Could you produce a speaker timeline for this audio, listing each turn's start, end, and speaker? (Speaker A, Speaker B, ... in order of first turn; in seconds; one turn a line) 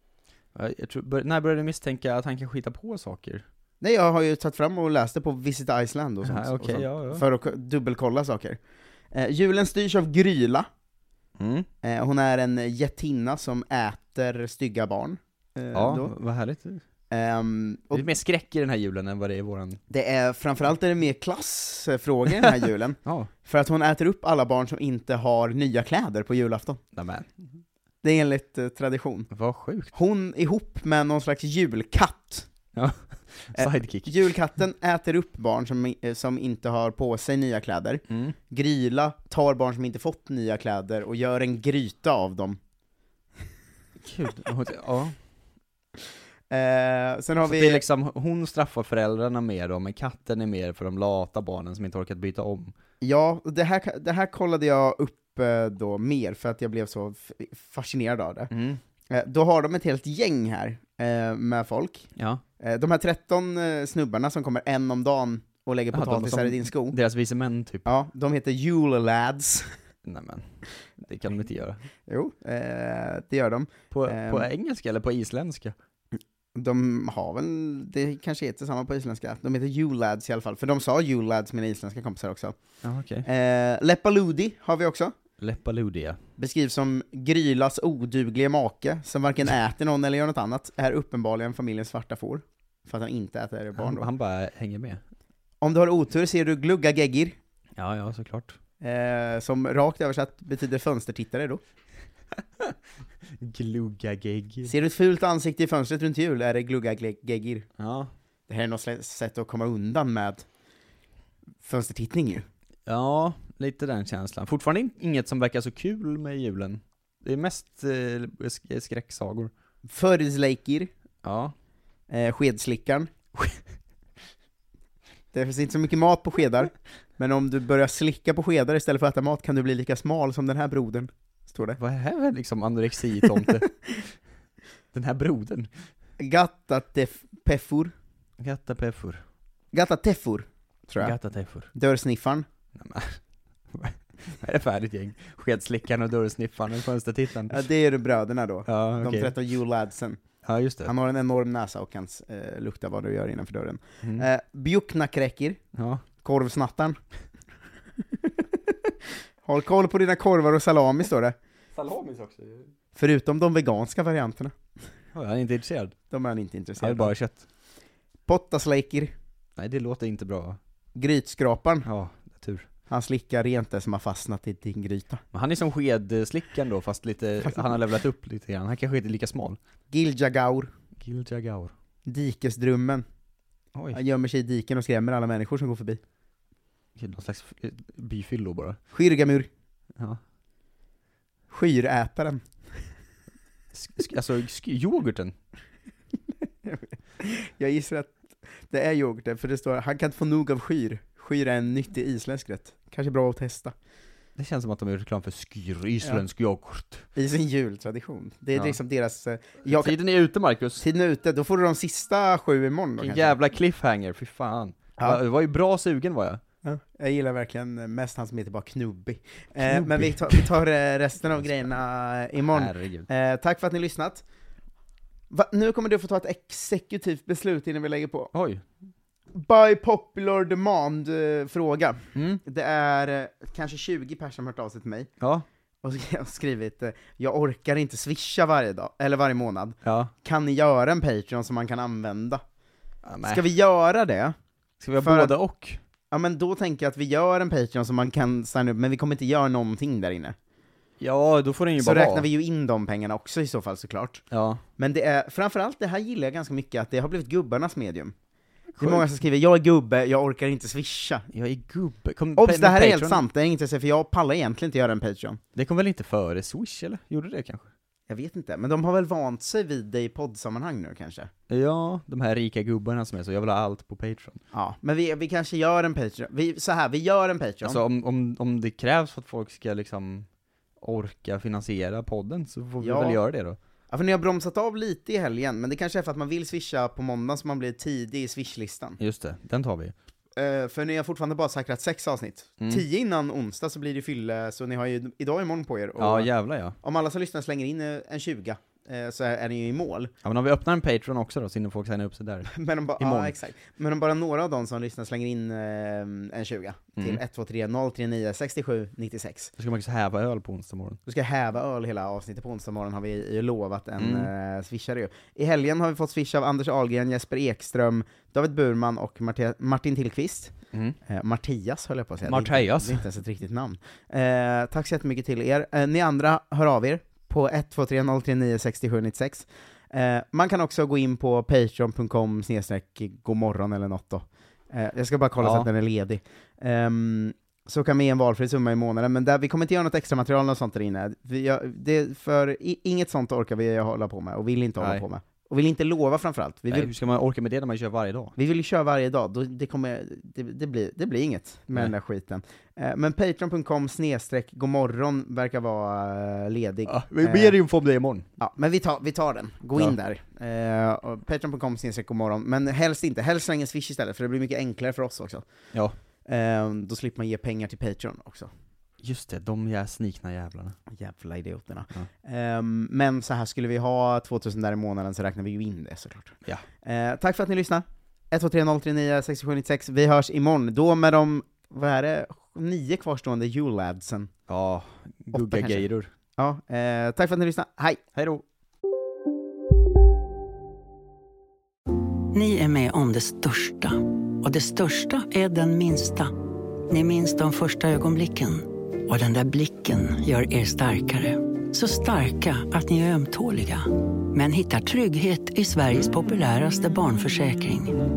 Speaker A: 0.6-3.5
Speaker B: 3.8-8.6
Speaker A: 6.2-7.2
Speaker B: 9.1-10.7
Speaker A: 11.4-11.7
Speaker B: 11.8-16.1
Speaker A: 15.7-16.8
Speaker B: 17.1-18.1
Speaker A: 17.9-19.8
Speaker B: 19.9-26.8
Speaker A: 22.4-23.3
Speaker A: 26.9-27.3
Speaker B: 28.0-29.3
Speaker A: 29.3-29.9
Speaker B: 29.9-32.5
Speaker A: 32.8-34.2
Speaker B: 33.5-42.6
Speaker A: 38.1-38.4
Speaker A: 44.0-45.2
Speaker B: 46.5-47.8
Speaker A: 47.5-52.7
Speaker B: 53.0-58.5
Speaker A: 58.5-58.8
Speaker B: 59.1-62.1
Speaker A: 62.2-62.4
Speaker B: 62.6-67.0
Speaker A: 65.9-67.9
Speaker B: 67.9-69.7
Speaker A: 70.0-70.5
Speaker A: 71.0-71.8
Speaker B: 72.1-74.5
Speaker A: 73.9-75.8
Speaker B: 76.5-82.6
Speaker A: 82.8-83.3
Speaker B: 83.2-85.1
Speaker A: 85.4-86.2
Speaker B: 86.4-94.1
Speaker A: 93.8-95.0
Speaker B: 95.6-97.3
Speaker A: 97.8-98.6
Speaker B: 98.8-101.6
Speaker A: 103.4-104.8
Speaker B: 104.7-107.7
Speaker A: 107.8-108.1
Speaker B: 108.5-110.5
Speaker B: 111.6-112.5
Speaker A: 112.9-119.5
Speaker B: 119.9-120.9
Speaker A: 121.2-121.5
Speaker B: 122.1-123.1
Speaker B: 125.3-131.8
Speaker A: 131.8-133.7
Speaker A: 134.9-135.7
Speaker B: 136.2-137.9
Speaker A: 138.4-139.2
Speaker B: 139.7-141.2
Speaker A: 141.0-141.7
Speaker B: 141.7-142.5
Speaker A: 142.8-143.2
Speaker A: 143.7-147.7
Speaker B: 147.5-150.2
Speaker A: 148.7-149.3
Speaker A: 150.4-150.9
Speaker B: 150.8-155.6
Speaker A: 155.8-156.0
Speaker B: 156.2-157.0
Speaker B: 159.4-161.3
Speaker A: 161.7-162.7
Speaker B: 162.9-164.5
Speaker A: 165.1-166.0
Speaker B: 166.1-167.1
Speaker A: 166.8-167.4
Speaker B: 168.3-169.1
Speaker A: 169.6-170.6
Speaker B: 171.0-171.9
Speaker A: 171.8-172.7
Speaker B: 172.9-175.2
Speaker A: 175.3-179.6
Speaker B: 179.9-180.7
Speaker A: 181.0-181.7
Speaker B: 182.1-183.0
Speaker A: 183.8-184.0
Speaker B: 183.9-186.0
Speaker A: 187.0-188.8
Speaker B: 188.9-189.5
Speaker B: 191.5-192.4
Speaker A: 193.7-195.3
Speaker B: 196.6-203.7
Speaker A: 204.4-207.1
Speaker B: 207.2-210.0
Speaker A: 209.7-210.8
Speaker B: 210.8-213.4
Speaker A: 213.0-216.4
Speaker B: 216.6-224.2
Speaker A: 219.7-220.5
Speaker A: 222.5-223.1
Speaker B: 225.3-228.3
Speaker A: 228.3-228.6
Speaker B: 229.3-235.1
Speaker A: 232.2-232.4
Speaker A: 235.2-235.5
Speaker B: 235.8-242.4
Speaker A: 239.8-240.1
Speaker A: 243.1-243.4
Speaker B: 243.2-244.3
Speaker A: 244.8-245.8
Speaker B: 245.0-245.3
Speaker B: 246.1-250.3
Speaker A: 251.0-252.3
Speaker B: 251.8-254.2
Speaker A: 254.3-254.6
Speaker B: 254.8-258.1
Speaker A: 258.8-259.1
Speaker B: 258.8-261.3
Speaker A: 261.3-263.2
Speaker B: 262.4-265.4
Speaker A: 265.6-267.7
Speaker B: 268.1-271.3
Speaker A: 271.5-274.4
Speaker B: 274.5-277.8
Speaker A: 277.6-280.3
Speaker A: 280.8-283.6
Speaker B: 282.8-283.2
Speaker B: 283.9-289.0
Speaker A: 289.0-289.9
Speaker B: 290.4-300.1
Speaker A: 296.0-296.8
Speaker A: 300.2-303.4
Speaker B: 302.5-309.5
Speaker A: 309.6-311.0
Speaker B: 311.1-320.5
Speaker A: 314.0-314.3
Speaker B: 321.1-346.9
Speaker A: 322.2-323.0
Speaker A: 335.4-335.7
Speaker A: 344.8-345.1
Speaker A: 346.7-348.4
Speaker B: 348.4-357.6
Speaker A: 356.9-358.3
Speaker B: 358.4-365.5
Speaker B: 366.3-368.5
Speaker A: 369.0-370.7
Speaker B: 370.9-384.3
Speaker A: 384.5-386.1
Speaker B: 385.3-388.0
Speaker A: 388.2-388.4
Speaker C: 392.3-396.3
Speaker C: 396.9-407.9